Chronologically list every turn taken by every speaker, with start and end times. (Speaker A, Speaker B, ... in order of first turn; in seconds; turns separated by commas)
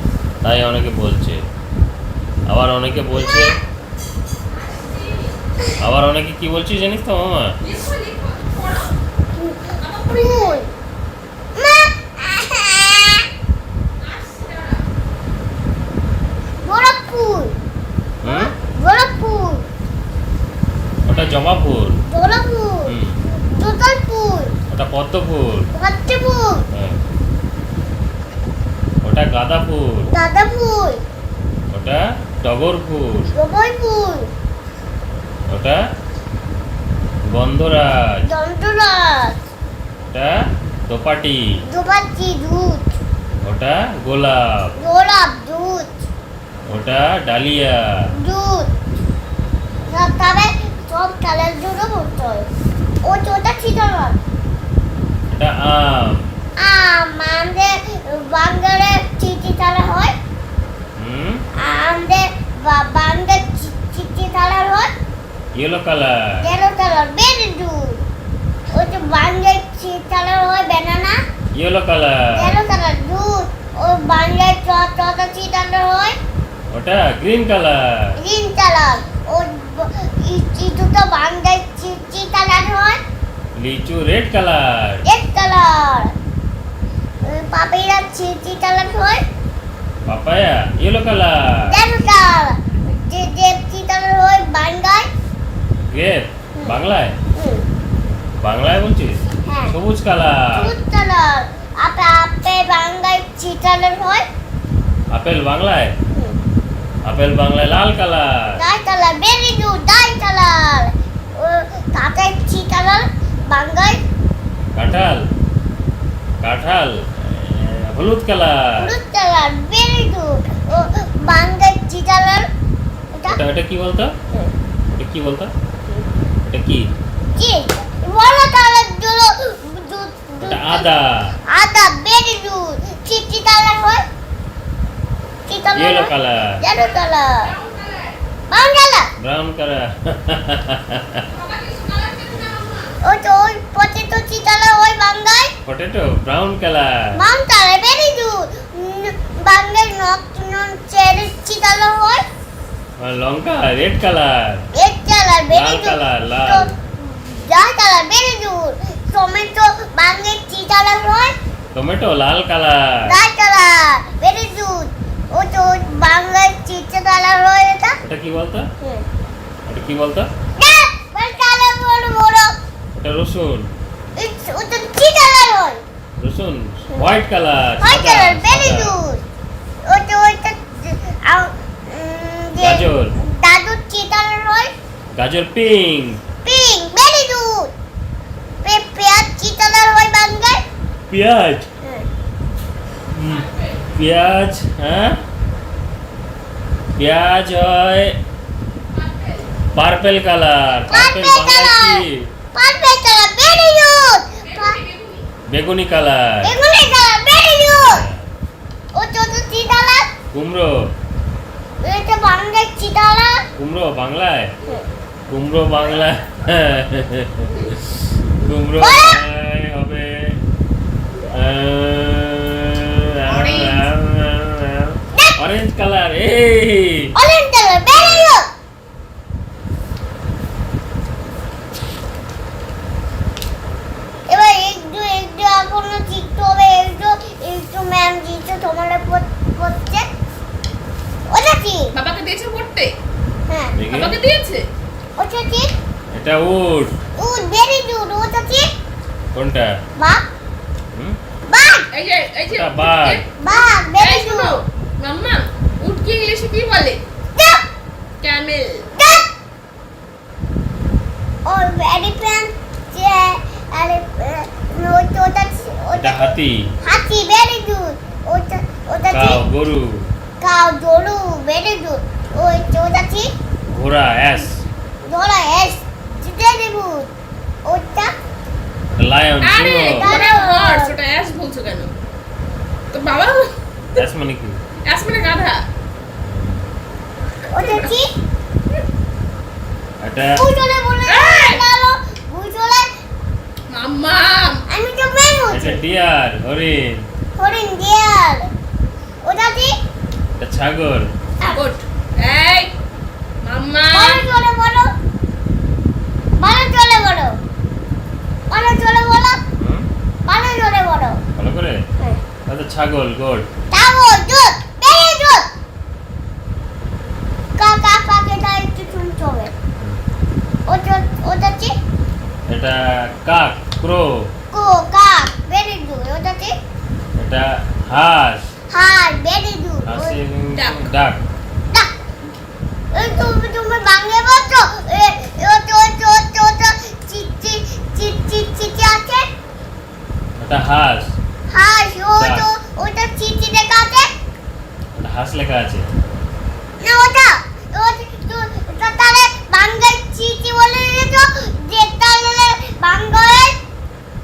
Speaker A: 0.4-1.4, Speaker A: 2.5-3.5, Speaker B: 3.1-3.5, Speaker C: 4.6-5.4, Speaker A: 5.8-7.5, Speaker C: 7.6-8.9, Speaker B: 9.3-10.7, Speaker C: 9.8-10.6, Speaker B: 11.6-13.3, Speaker C: 14.0-14.8, Speaker B: 16.6-17.6, Speaker A: 18.2-18.5, Speaker B: 18.2-19.6, Speaker A: 21.0-22.0, Speaker C: 21.1-21.4, Speaker B: 22.1-22.9, Speaker A: 22.9-23.2, Speaker B: 23.6-24.5, Speaker A: 24.7-25.7, Speaker B: 25.7-26.6, Speaker A: 29.0-30.1, Speaker B: 30.1-31.0, Speaker A: 31.7-33.3, Speaker B: 33.3-34.3, Speaker A: 35.5-35.8, Speaker A: 37.3-38.2, Speaker B: 38.2-39.4, Speaker A: 40.1-40.3, Speaker A: 40.9-41.6, Speaker B: 41.7-42.9, Speaker A: 43.4-44.7, Speaker B: 44.8-46.0, Speaker A: 46.7-48.1, Speaker B: 48.2-48.7, Speaker B: 49.9-52.5, Speaker B: 53.0-54.2, Speaker A: 55.3-56.3, Speaker B: 56.6-60.1, Speaker A: 61.0-61.4, Speaker B: 61.6-64.9, Speaker A: 65.5-66.1, Speaker B: 66.4-68.0, Speaker B: 68.7-71.2, Speaker A: 71.5-72.5, Speaker B: 72.3-76.2, Speaker A: 76.7-78.1, Speaker B: 78.2-83.0, Speaker A: 83.6-85.0, Speaker B: 85.0-86.1, Speaker B: 87.2-89.2, Speaker A: 90.1-91.7, Speaker B: 91.7-95.1, Speaker A: 95.9-97.2, Speaker B: 97.3-97.7, Speaker A: 98.4-100.7, Speaker B: 99.4-99.8, Speaker B: 100.5-104.2, Speaker A: 105.1-105.9, Speaker A: 107.1-108.6, Speaker B: 108.6-114.0, Speaker A: 114.7-115.2, Speaker A: 116.4-118.9, Speaker B: 118.8-122.5, Speaker B: 123.1-123.4, Speaker A: 123.3-124.1, Speaker A: 125.0-125.5, Speaker A: 126.4-126.9, Speaker B: 127.3-130.9, Speaker A: 130.4-131.3, Speaker B: 131.5-134.0, Speaker B: 135.5-137.5, Speaker A: 135.7-136.6, Speaker C: 136.8-138.2, Speaker B: 138.5-139.1, Speaker A: 139.2-141.2, Speaker C: 141.2-142.9, Speaker A: 142.3-142.8, Speaker B: 143.0-145.5, Speaker A: 145.7-147.2, Speaker B: 147.2-152.2, Speaker A: 153.0-154.6, Speaker B: 154.7-161.3, Speaker A: 155.5-156.8, Speaker A: 161.7-163.1, Speaker B: 163.1-168.0, Speaker A: 168.0-168.7, Speaker A: 169.7-170.3, Speaker B: 170.6-172.5, Speaker A: 172.9-173.7, Speaker B: 174.2-175.8, Speaker A: 176.2-179.0, Speaker B: 177.8-179.2, Speaker B: 179.8-184.7, Speaker A: 182.6-183.2, Speaker A: 185.2-186.2, Speaker B: 186.4-187.7, Speaker B: 188.6-190.6, Speaker A: 191.1-191.7, Speaker B: 191.8-192.1, Speaker A: 193.1-195.2, Speaker C: 193.2-193.9, Speaker A: 197.0-198.2, Speaker C: 198.9-199.5, Speaker A: 199.7-202.3, Speaker B: 200.9-202.0, Speaker B: 202.5-204.8, Speaker C: 204.4-205.3, Speaker A: 205.5-206.6, Speaker B: 206.4-208.0, Speaker A: 207.7-208.3, Speaker B: 208.9-210.1, Speaker A: 210.3-210.9, Speaker B: 211.8-213.5, Speaker A: 213.6-214.5, Speaker A: 215.3-220.4, Speaker B: 218.8-219.2, Speaker A: 221.3-227.1, Speaker C: 223.2-223.8, Speaker B: 225.1-225.4, Speaker B: 227.2-228.5, Speaker A: 227.9-228.3, Speaker B: 234.3-240.1, Speaker B: 241.3-241.9, Speaker C: 241.9-242.9, Speaker B: 243.5-243.7, Speaker A: 243.8-244.2, Speaker C: 243.9-244.6, Speaker B: 245.2-245.7, Speaker A: 246.1-246.9, Speaker B: 247.2-248.7, Speaker A: 249.3-249.7, Speaker B: 250.0-250.2, Speaker B: 251.5-251.9, Speaker C: 251.9-257.0, Speaker A: 252.5-253.2, Speaker B: 253.4-254.6, Speaker B: 257.4-257.6, Speaker C: 258.2-258.9, Speaker B: 258.9-259.3, Speaker B: 261.4-269.4, Speaker A: 266.0-266.7, Speaker A: 269.1-270.1, Speaker B: 270.4-273.3, Speaker A: 273.7-274.6, Speaker B: 275.0-277.1, Speaker B: 277.6-278.1, Speaker A: 278.9-280.2, Speaker C: 279.4-281.9, Speaker B: 279.9-281.0, Speaker C: 282.9-284.0, Speaker A: 283.9-284.6, Speaker C: 284.8-285.6, Speaker A: 286.2-286.6, Speaker B: 287.5-288.1, Speaker C: 287.5-287.9, Speaker A: 290.0-290.4, Speaker B: 290.3-292.9, Speaker C: 291.1-291.7, Speaker C: 293.7-294.6, Speaker B: 294.7-295.8, Speaker A: 295.5-297.1, Speaker B: 297.4-298.5, Speaker B: 299.2-299.7, Speaker A: 300.4-301.1, Speaker C: 301.4-302.7, Speaker C: 303.4-304.3, Speaker B: 303.9-304.9, Speaker B: 306.4-307.3, Speaker B: 308.5-309.4, Speaker A: 309.6-309.9, Speaker B: 310.2-311.2, Speaker A: 311.4-311.8, Speaker A: 312.5-313.5, Speaker B: 313.7-315.5, Speaker B: 317.6-319.5, Speaker B: 320.7-321.7, Speaker A: 322.5-324.3, Speaker B: 324.5-326.6, Speaker A: 327.2-328.5, Speaker B: 328.7-330.2, Speaker A: 329.8-331.2, Speaker C: 330.5-330.9, Speaker B: 332.9-339.3, Speaker A: 340.4-341.1, Speaker B: 341.5-344.1, Speaker A: 342.2-342.5, Speaker A: 344.9-345.9, Speaker B: 346.8-353.6